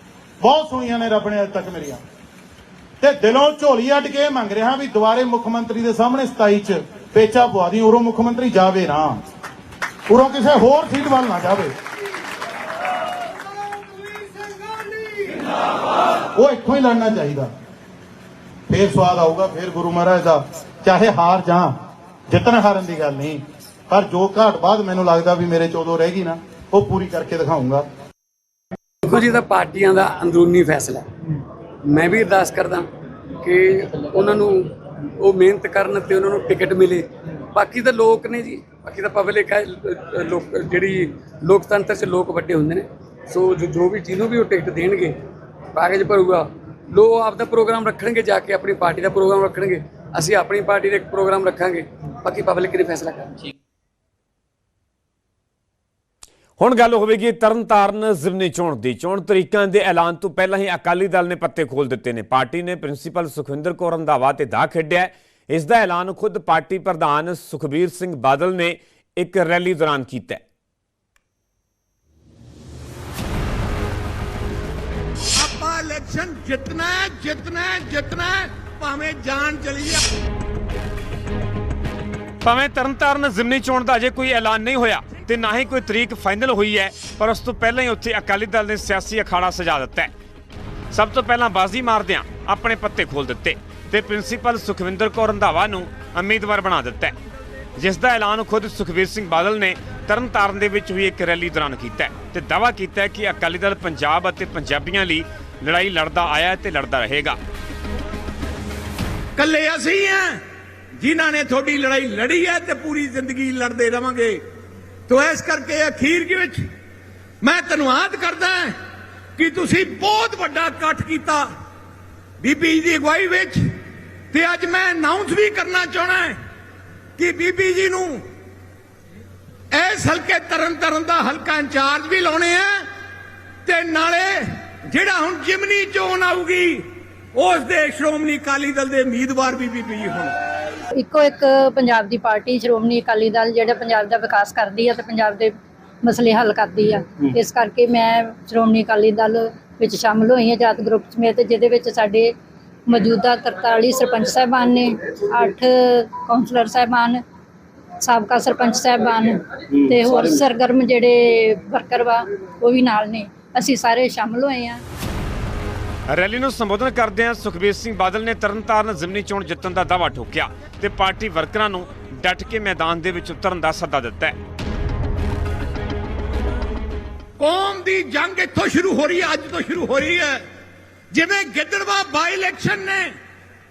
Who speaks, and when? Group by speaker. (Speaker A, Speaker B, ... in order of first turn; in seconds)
Speaker A: 0.4-2.0, 3.0-9.2, 10.1-11.7, 16.3-17.5, 18.7-27.9
Speaker B: 29.0-31.1, 31.8-45.2, 45.7-53.4
Speaker C: 56.6-70.4, 82.4-90.1, 90.9-97.1, 97.8-107.4, 166.1-174.4
Speaker D: 75.3-80.0, 109.4-110.4, 111.0-114.4, 115.1-116.7, 117.4-118.8, 119.3-121.5, 122.4-123.8, 124.3-126.4, 127.2-128.2, 129.7-132.9, 133.6-140.3, 177.4-180.5, 181.1-183.1
Speaker E: 141.0-152.3, 152.9-157.2, 158.0-164.8